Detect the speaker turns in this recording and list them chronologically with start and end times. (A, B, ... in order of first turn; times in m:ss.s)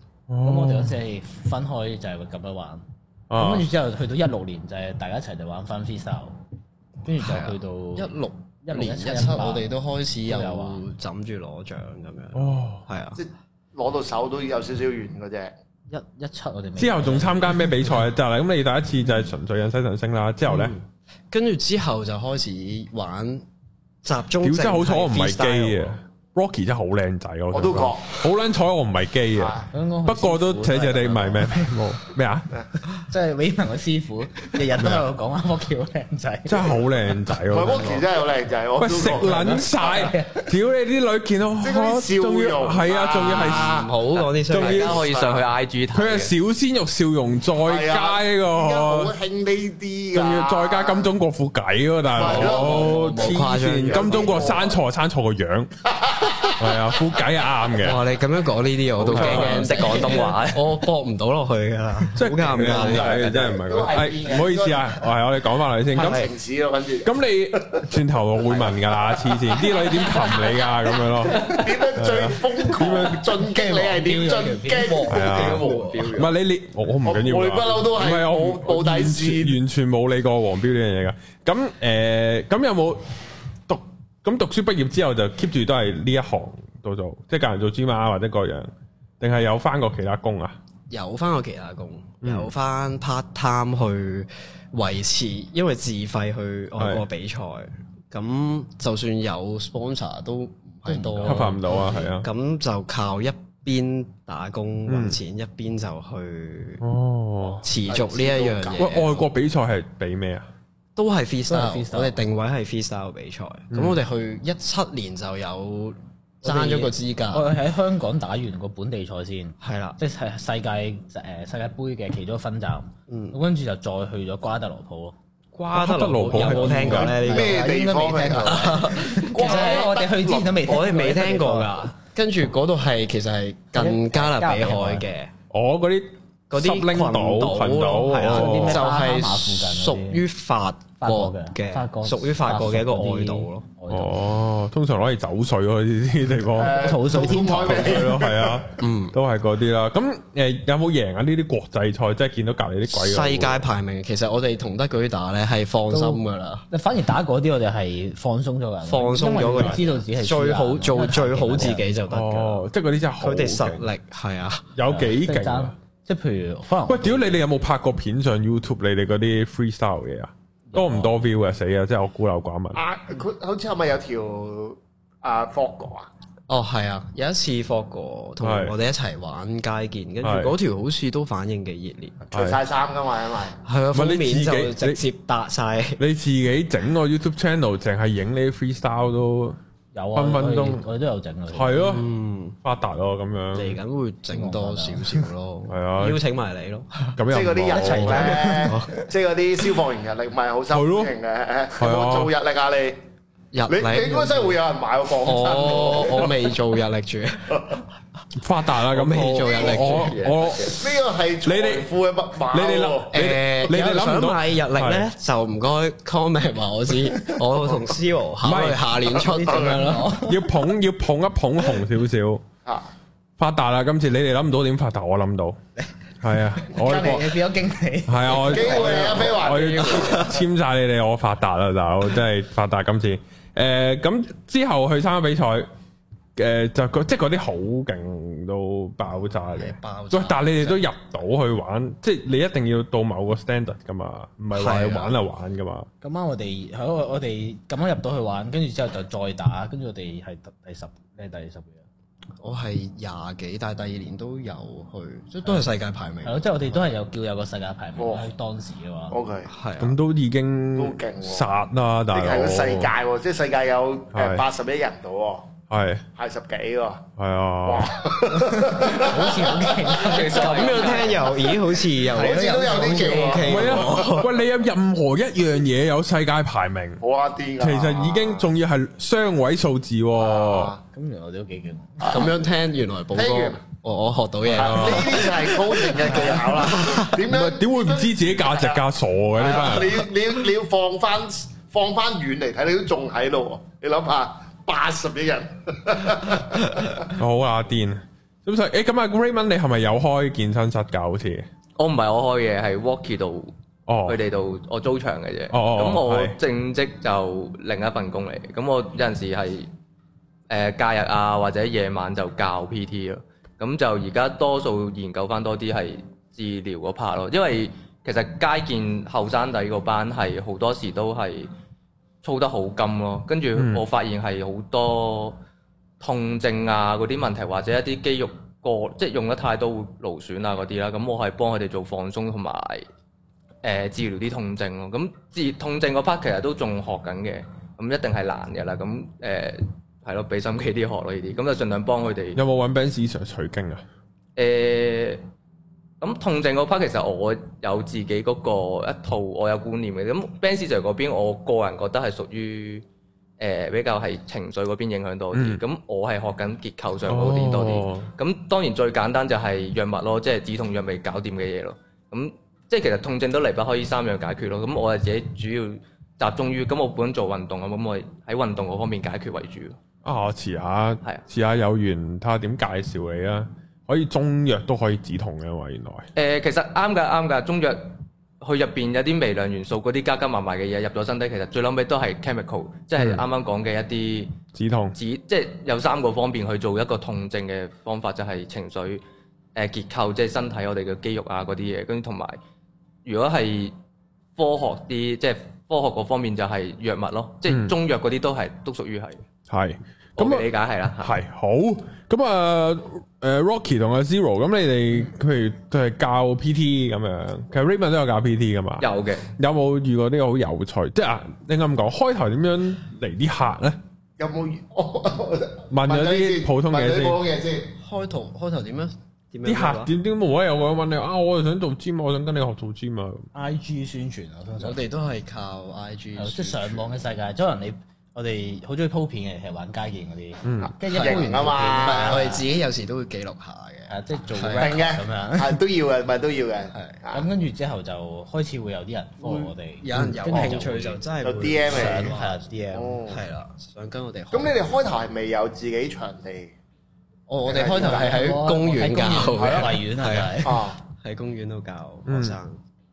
0:00.3-0:01.0 A
0:00.4-0:06.4 B
0:03.3-0:03.7 A
0:07.0-0:09.7 B
0:07.2-0:13.2 C
0:10.3-0:10.8 B
0:12.4-0:12.9 A
0:13.2-0:15.5 D
0:15.9-0:17.8 B
0:16.8-0:20.8 A
0:20.5-0:23.5 C
0:24.0-0:26.0 C
0:24.4-0:32.5 A
0:27.5-0:28.2 D
0:29.4-0:29.6 D
0:29.7-0:31.8 B
0:33.0-0:37.1 B
0:34.8-0:35.0 A
0:36.5-0:38.1 A
0:37.5-0:40.0 D
0:38.8-0:43.8 A
0:39.2-0:40.5 B
0:41.6-0:43.9 D
0:43.2-0:45.0 C
0:44.2-0:46.3 E
0:44.5-0:45.0 A
0:44.6-0:45.4 D
0:45.9-0:49.1 A
0:47.6-0:51.1 D
0:50.1-0:55.7 A
0:52.1-0:53.3 D
0:52.2-0:54.7 C
0:53.8-0:54.8 D
0:55.9-0:57.0 D
0:56.6-0:58.0 A
0:57.8-1:03.6 C
0:59.0-0:59.9 A
0:59.1-1:00.8 E
1:02.2-1:06.3 A
1:02.5-1:05.0 D
1:05.9-1:07.9 D
1:06.0-1:06.3 C
1:07.0-1:13.4 A
1:08.5-1:15.7 D
1:13.3-1:15.4 B
1:14.8-1:16.3 C
1:15.1-1:23.1 A
1:17.0-1:19.6 D
1:23.7-1:30.6 A
1:30.9-1:46.8 C
1:32.2-1:32.5 A
1:36.8-1:37.0 A
1:40.9-1:41.6 B
1:41.2-1:42.3 A
1:44.9-1:45.2 A
1:46.8-1:47.7 A
1:47.6-1:49.2 C
1:47.8-1:49.2 D
1:48.8-1:50.5 A
1:51.0-1:57.5 C
1:51.5-1:52.2 B
1:53.7-1:54.0 A
1:56.4-2:05.2 B
1:59.6-2:00.0 C
2:03.1-2:03.4 C
2:05.5-2:07.7 C
2:05.7-2:07.2 A
2:06.3-2:11.9 B
2:07.2-2:10.6 D
2:08.4-2:09.9 C
2:10.6-2:15.3 C
2:13.7-2:15.1 B
2:15.5-2:18.8 A
2:16.5-2:23.7 C
2:18.2-2:20.2 B
2:21.0-2:24.3 B
2:23.9-2:33.7 A
2:26.6-2:28.6 D
2:26.6-2:28.2 B
2:28.8-2:29.2 C
2:32.9-2:36.6 C
2:35.9-2:42.0 B
2:38.8-2:42.7 C
2:39.5-2:39.8 A
2:42.1-2:43.8 A
2:43.2-2:44.7 C
2:44.8-2:45.7 A
2:44.9-2:47.4 B
2:46.9-2:52.8 A
2:50.7-2:51.2 B
2:52.7-2:56.1 D
2:56.5-3:02.2 C
2:58.4-2:58.7 A
3:00.2-3:00.6 A
3:02.3-3:03.6 D
3:02.3-3:02.6 A
3:03.6-3:06.0 C
3:03.9-3:05.0 A
3:06.0-3:09.6 A
3:09.9-3:12.0 B
3:10.1-3:10.8 A
3:11.5-3:12.0 A
3:11.8-3:12.6 C
3:12.6-3:13.8 A
3:13.5-3:17.2 C
3:14.3-3:15.3 B
3:15.7-3:16.2 A
3:17.2-3:18.4 A
3:17.3-3:23.0 D
3:17.7-3:18.8 B
3:17.8-3:19.0 C
3:20.7-3:21.1 A
3:21.8-3:22.3 A
3:23.5-3:24.6 C
3:23.7-3:26.5 D
3:25.2-3:27.8 C
3:28.4-3:30.9 A
3:28.9-3:30.2 C
3:29.4-3:33.3 D
3:29.9-3:30.7 E
3:31.4-3:31.9 A
3:32.5-3:35.1 A
3:33.1-3:40.2 C
3:38.4-3:38.8 A
3:39.1-3:40.5 B
3:39.5-3:39.9 D
3:40.2-3:42.4 A
3:43.4-3:45.6 A
3:46.2-3:47.4 A
3:46.6-3:49.4 B
3:48.1-3:55.7 A
3:48.4-3:50.3 D
3:48.8-3:49.3 C
3:49.9-3:50.3 C
3:56.4-4:05.9 A
3:59.6-4:00.8 C
4:04.5-4:05.2 C
4:06.0-4:11.8 B
4:12.4-4:16.9 C
4:16.2-4:19.2 B
4:18.0-4:18.3 D
4:19.1-4:19.5 D
4:19.5-4:20.0 C
4:19.8-4:22.9 A
4:20.8-4:21.5 D
4:22.1-4:25.5 D
4:24.1-4:24.5 A
4:25.7-4:26.0 A
4:26.2-4:27.1 D
4:27.2-4:27.9 A
4:27.6-4:30.2 D
4:28.6-4:33.6 B
4:29.9-4:31.3 E
4:30.0-4:34.4 C
4:32.1-4:34.2 D
4:33.4-4:37.0 A
4:37.0-4:38.5 D
4:37.6-4:40.7 A
4:40.2-4:40.8 D
4:40.9-4:42.3 B
4:42.0-4:42.3 D
4:42.1-4:47.3 C
4:43.1-4:43.6 D
4:44.5-4:45.2 A
4:44.5-4:48.8 D
4:47.3-4:50.0 A
4:49.4-4:57.1 D
4:57.1-5:01.5 A
5:01.8-5:03.5 E
5:03.9-5:04.2 A
5:04.1-5:09.7 E
5:05.5-5:06.4 A
5:10.5-5:21.5 E
5:22.2-5:25.4 E
5:23.6-5:23.8 A
5:26.0-5:32.9 E
5:33.6-5:42.4 E
5:42.4-5:43.8 A
5:44.4-5:45.2 E
5:46.0-5:52.8 E
5:53.4-6:09.8 E
5:55.3-5:55.6 A
5:57.1-5:58.1 A
6:10.0-6:16.1 A
6:16.2-6:24.3 E
6:23.0-6:23.2 A
6:24.6-6:25.0 A
6:25.0-6:29.0 E
6:29.6-6:32.4 E
6:33.0-6:33.8 E
6:34.4-6:39.2 E
6:37.5-6:37.8 A
6:39.5-6:40.5 A
6:40.2-6:41.2 E
6:41.0-6:53.8 A
6:48.8-6:49.3 E
6:54.2-6:57.7 D
6:55.7-6:57.2 A
6:57.8-6:59.9 C
6:59.4-7:03.3 A
7:03.3-7:04.8 B
7:04.6-7:06.9 C
7:06.2-7:12.4 B
7:10.4-7:10.8 A
7:10.6-7:12.4 D
7:10.9-7:14.8 C
7:13.9-7:15.6 B
7:14.5-7:17.3 D
7:16.7-7:17.0 C
7:17.1-7:21.0 B
7:19.2-7:22.3 C
7:21.2-7:22.2 D
7:21.7-7:23.0 B
7:22.7-7:23.2 D
7:23.1-7:24.7 C
7:24.3-7:26.5 D
7:27.3-7:32.6 C
7:27.5-7:28.2 D
7:27.5-7:30.7 B
7:29.4-7:29.7 D
7:30.4-7:30.8 D
7:32.1-7:32.4 A